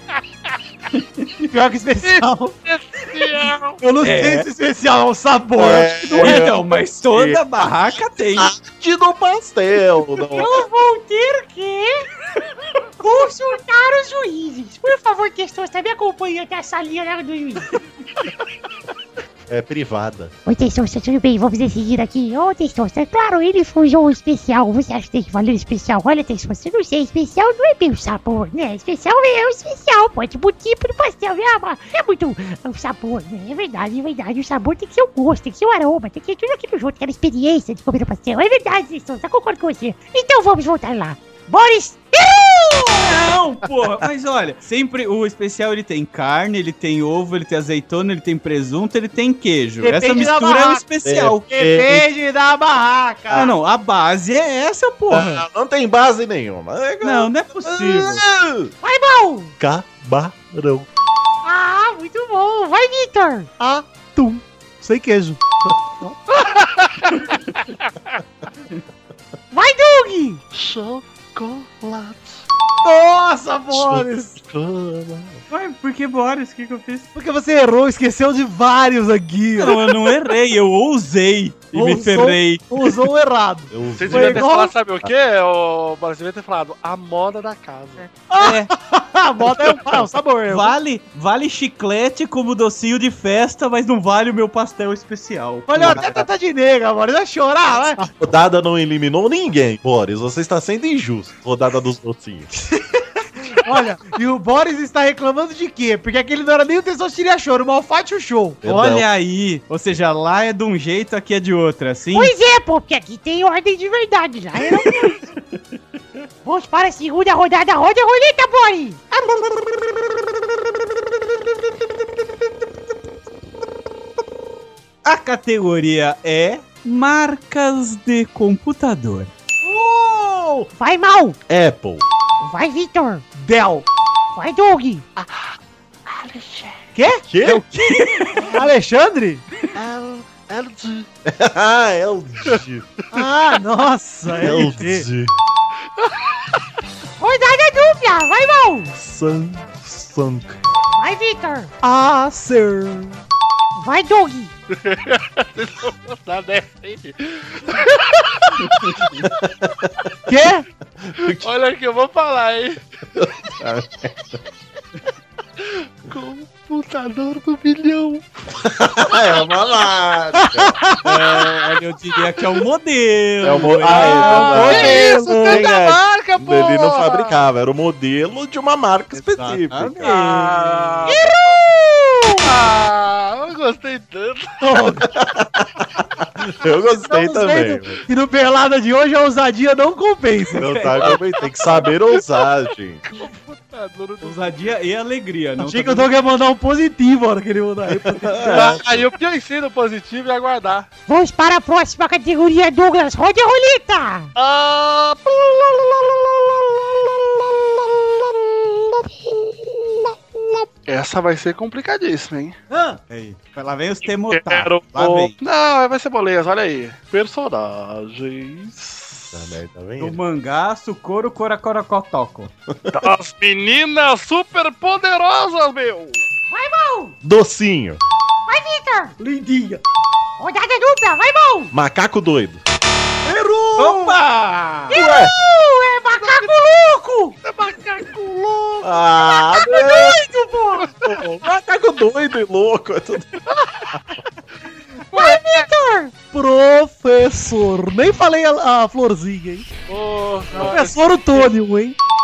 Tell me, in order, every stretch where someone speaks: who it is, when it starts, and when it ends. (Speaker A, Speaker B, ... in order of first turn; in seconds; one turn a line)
Speaker A: 1.2-1.5
Speaker B: 1.5-2.5
Speaker C: 2.0-3.8
Speaker B: 3.8-6.5
Speaker A: 4.0-4.5
Speaker D: 5.6-6.6
Speaker A: 6.1-8.5
Speaker D: 7.1-7.4
Speaker D: 8.3-10.7
Speaker E: 10.2-12.1
Speaker E: 13.0-17.7
Speaker D: 19.5-20.3
Speaker E: 20.4-43.1
Speaker A: 43.0-51.4
Speaker B: 49.8-50.9
Speaker D: 51.0-52.0
Speaker B: 51.4-53.5
Speaker A: 53.3-55.4
Speaker D: 55.1-58.7
Speaker A: 57.0-58.2
Speaker E: 58.8-59.5
Speaker D: 59.6-60.9
Speaker E: 61.4-63.5
Speaker B: 63.6-65.7
Speaker C: 66.3-67.9
Speaker E: 69.5-70.4
Speaker C: 70.5-72.4
Speaker B: 72.8-74.4
Speaker D: 73.7-75.4
Speaker A: 75.5-77.1
Speaker B: 77.1-80.3
Speaker A: 79.6-82.7
Speaker B: 81.7-84.7
Speaker D: 83.7-84.5
Speaker C: 83.9-88.1
Speaker B: 88.3-90.8
Speaker A: 88.4-88.7
Speaker A: 90.5-96.1
Speaker B: 95.7-98.1
Speaker D: 95.8-96.2
Speaker D: 98.0-102.5
Speaker B: 103.5-108.6
Speaker D: 108.6-109.0
Speaker A: 108.6-112.3
Speaker E: 112.1-115.2
Speaker E: 116.4-119.2
Speaker A: 125.0-129.3
Speaker B: 129.6-130.7
Speaker E: 130.8-131.4
Speaker D: 131.5-132.0
Speaker E: 132.4-133.2
Speaker B: 133.3-133.9
Speaker E: 134.3-135.0
Speaker C: 136.1-136.7
Speaker B: 136.9-137.3
Speaker D: 137.3-137.7
Speaker A: 137.4-138.6
Speaker B: 138.4-139.4
Speaker C: 139.8-141.0
Speaker D: 141.2-143.0
Speaker B: 143.1-145.1
Speaker D: 144.3-145.3
Speaker C: 146.0-146.5
Speaker E: 147.2-148.9
Speaker D: 148.9-150.6
Speaker E: 150.9-151.7
Speaker B: 151.8-153.2
Speaker E: 153.7-154.5
Speaker C: 154.7-159.3
Speaker D: 159.4-160.0
Speaker B: 160.3-160.7
Speaker D: 161.0-161.4
Speaker C: 161.2-162.8
Speaker D: 163.1-164.4
Speaker C: 165.6-168.3
Speaker D: 168.6-170.8
Speaker B: 170.4-171.0
Speaker A: 171.0-174.8
Speaker D: 173.4-180.1
Speaker B: 173.8-175.7
Speaker C: 173.8-177.4
Speaker A: 179.1-181.0
Speaker C: 180.0-181.3
Speaker E: 181.1-182.4
Speaker C: 182.4-184.5
Speaker B: 184.6-185.1
Speaker D: 185.1-188.0
Speaker B: 187.0-191.1
Speaker A: 190.6-191.2
Speaker D: 190.6-193.0
Speaker C: 193.1-194.8
Speaker A: 194.2-196.1
Speaker B: 195.6-198.8
Speaker D: 197.9-199.1
Speaker C: 198.4-200.9
Speaker E: 201.1-204.3
Speaker C: 204.3-209.1
Speaker C: 209.8-212.6
Speaker B: 212.7-213.0
Speaker A: 213.1-215.3
Speaker C: 214.3-219.6
Speaker D: 219.3-220.2
Speaker A: 220.0-222.5
Speaker C: 222.9-226.2
Speaker E: 226.5-227.1
Speaker D: 227.2-228.0
Speaker E: 228.5-229.2
Speaker B: 229.2-229.8
Speaker E: 230.4-231.7
Speaker D: 231.7-232.6
Speaker B: 233.2-234.2
Speaker A: 233.8-234.9
Speaker E: 234.9-238.1
Speaker D: 234.9-235.3
Speaker C: 237.4-238.8
Speaker D: 238.8-240.2
Speaker E: 239.2-240.9
Speaker D: 241.0-243.3
Speaker C: 243.6-243.9
Speaker E: 245.1-246.2
Speaker B: 246.3-249.7
Speaker C: 249.9-251.5
Speaker B: 250.5-251.9